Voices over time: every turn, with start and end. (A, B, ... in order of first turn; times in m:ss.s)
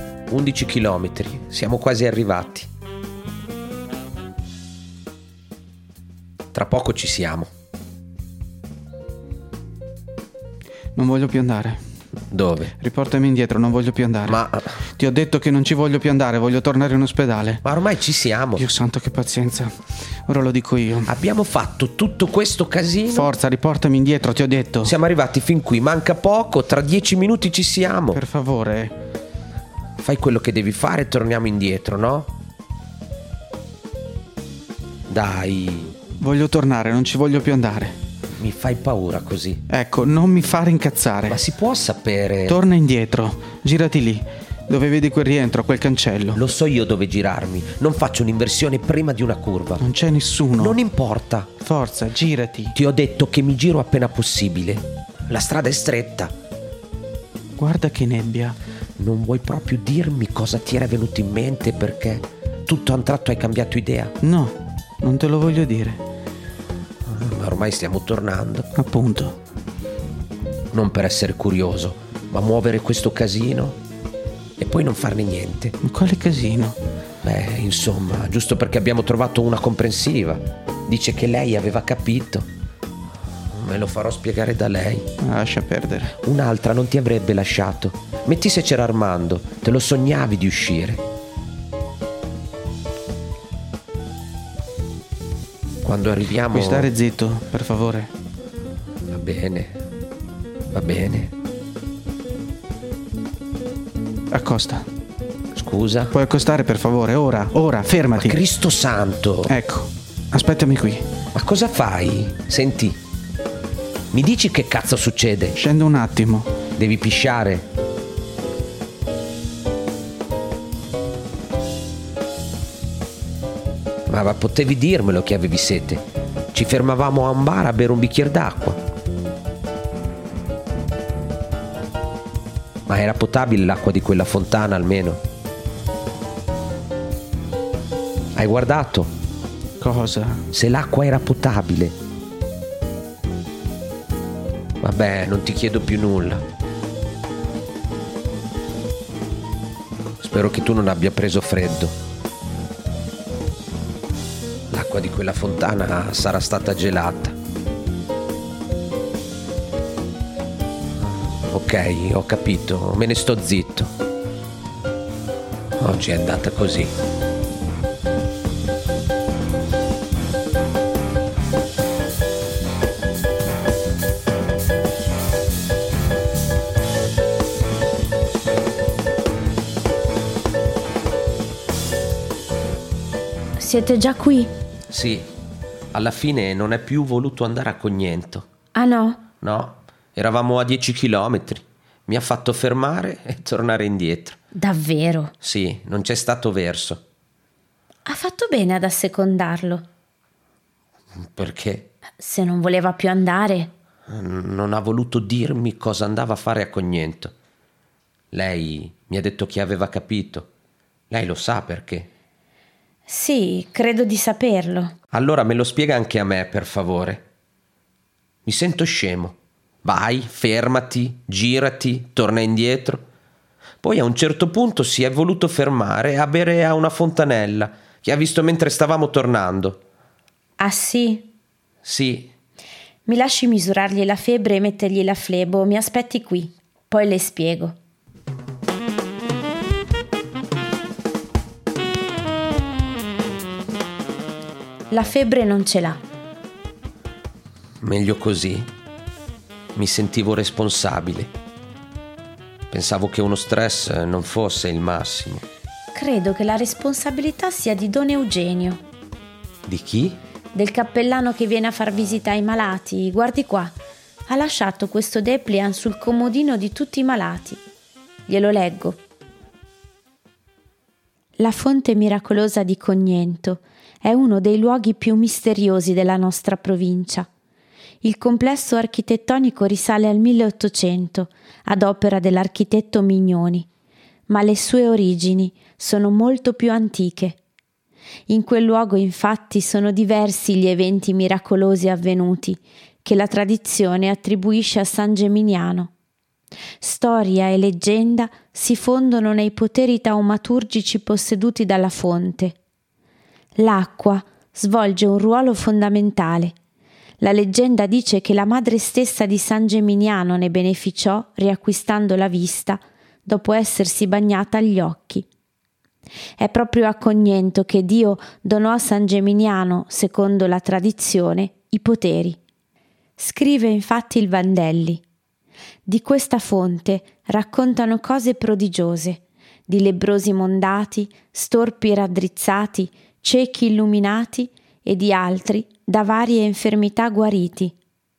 0:00.3-0:02.7 A
0:06.5-0:07.5 A
0:11.0-0:11.8 B
0:12.3-0:12.8 A
0:12.8-0:14.4 B
0:14.3-0:14.7 A
0:15.0-0:17.6 B
0:17.6-0:18.7 A
0:18.6-0:21.1 B
0:21.1-0:23.3 A
0:23.1-0:25.0 B
0:24.8-0:28.2 A
0:28.1-0:29.0 B
0:30.0-0:32.3 A
0:35.1-0:36.0 A
0:36.2-0:38.0 B
0:38.4-0:39.6 A
0:39.7-0:41.4 B
0:41.3-0:42.6 A
0:42.5-0:46.4 B
0:46.3-0:49.8 A
0:49.8-0:50.8 B
0:50.6-0:51.5 A
0:51.6-0:52.8 B
0:52.8-0:56.3 A
0:57.6-0:58.6 B
0:59.0-1:04.1 A
1:04.2-1:06.0 B
1:07.1-1:08.7 A
1:08.8-1:09.4 B
1:10.7-1:13.8 A
1:14.6-1:15.8 A
1:15.8-1:16.8 B
1:17.2-1:22.5 A
1:23.5-1:25.1 A
1:25.2-1:26.2 B
1:26.2-1:31.0 A
1:35.8-1:36.9 A
1:36.5-1:38.1 B
1:39.1-1:39.8 A
1:40.7-1:41.3 A
1:44.3-1:44.8 B
1:45.6-1:46.1 A
1:46.1-1:48.4 B
1:48.2-1:49.6 A
1:49.5-1:51.0 B
1:51.3-1:53.0 A
1:54.1-1:55.6 A
1:55.6-1:56.6 B
1:56.8-1:57.7 A
2:04.1-2:08.8 A
2:12.9-2:15.2 A
2:18.4-2:19.1 A
2:19.8-2:20.5 B
2:20.5-2:22.0 A
2:24.8-2:26.4 A
2:30.2-2:32.0 A
2:34.7-2:37.4 A
2:41.0-2:43.9 A
2:45.8-2:46.9 A
3:03.6-3:04.5 C
3:04.9-3:05.3 A
3:05.9-3:08.5 A
3:08.7-3:09.2 C
3:09.4-3:14.4 A
3:14.5-3:15.3 C
3:15.4-3:17.0 A
3:18.0-3:19.9 C
3:21.2-3:21.9 A
3:22.2-3:23.7 C
3:24.1-3:27.3 A
3:28.3-3:30.5 A
3:31.1-3:32.1 A
3:33.1-3:35.0 C
3:35.1-3:37.3 A
3:38.5-3:43.0 A
3:43.8-3:49.8 A
3:50.6-3:51.3 C
3:51.8-3:52.3 A
3:53.1-3:57.8 C
4:04.9-4:06.0 C
4:07.8-4:08.7 A
4:09.8-4:11.3 A
4:12.7-4:15.4 A
4:15.9-4:18.8 C
4:19.7-4:20.2 A
4:20.5-4:23.8 C
4:24.3-4:27.6 C
4:28.3-4:29.0 C
4:31.4-4:37.3 C
4:38.0-4:43.7 C
4:44.3-4:47.4 C
4:48.3-4:55.9 C
4:56.8-5:02.6 C
5:03.6-5:06.6 C
5:07.2-5:15.3 C
5:16.4-5:22.4 C
5:23.2-5:25.0 C
5:25.8-5:37.8 C